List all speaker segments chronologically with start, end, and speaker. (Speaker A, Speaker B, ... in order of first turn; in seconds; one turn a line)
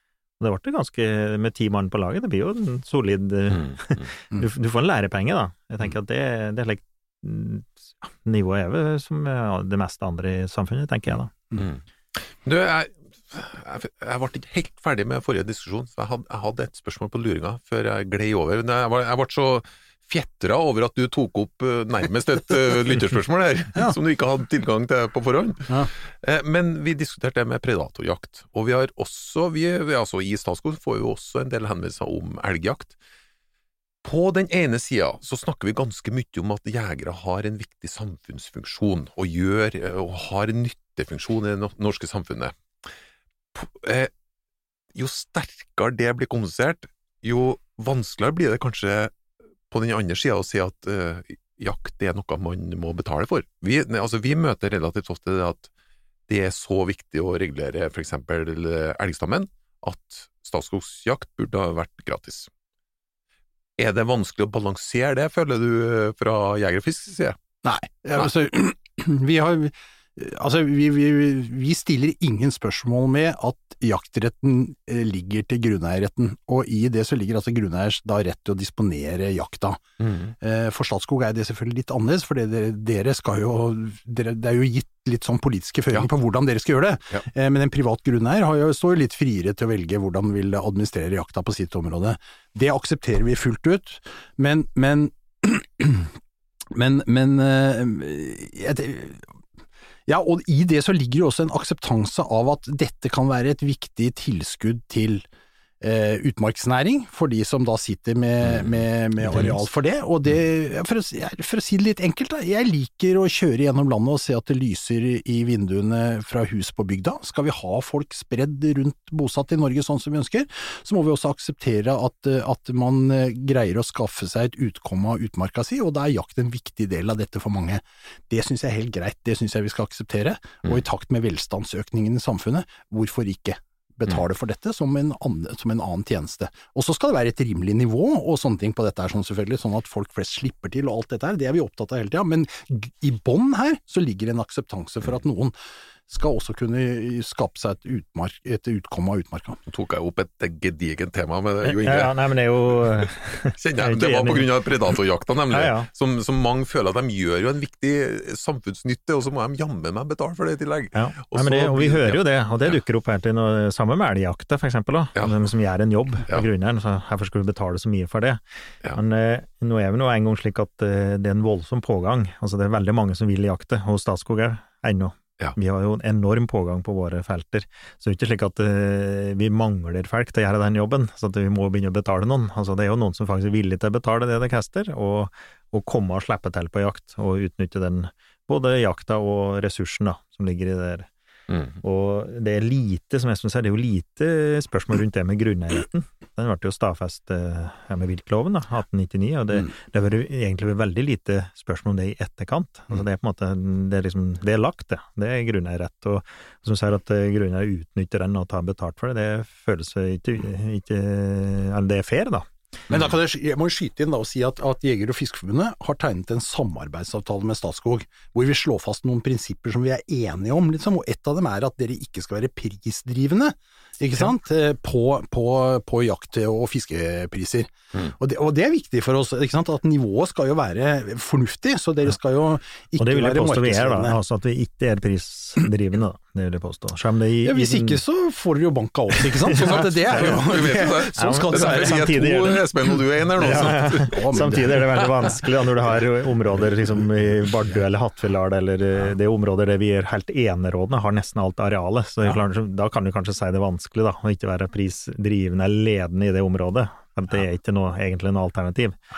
Speaker A: 0.4-11.5
Speaker B: 3.6-4.0
Speaker B: 11.6-33.0
Speaker B: 34.0-42.5
Speaker B: 43.5-44.1
Speaker B: 44.9-49.1
Speaker B: 49.7-55.7
Speaker B: 56.3-62.5
Speaker B: 63.8-67.4
Speaker C: 67.6-79.8
Speaker B: 80.0-80.3
Speaker C: 80.4-96.2
Speaker C: 96.7-99.3
Speaker C: 100.1-105.2
Speaker C: 105.8-145.5
Speaker C: 146.1-149.6
Speaker B: 149.7-152.2
Speaker A: 151.6-154.7
Speaker B: 153.6-162.2
Speaker A: 155.5-155.9
Speaker A: 160.9-168.4
Speaker A: 168.9-191.1
Speaker B: 191.5-191.8
Speaker A: 191.8-212.5
Speaker C: 212.9-234.2
Speaker A: 233.0-238.0
Speaker C: 237.4-242.1
Speaker B: 239.5-245.3
Speaker A: 239.5-242.7
Speaker A: 243.4-259.0
Speaker C: 243.4-245.3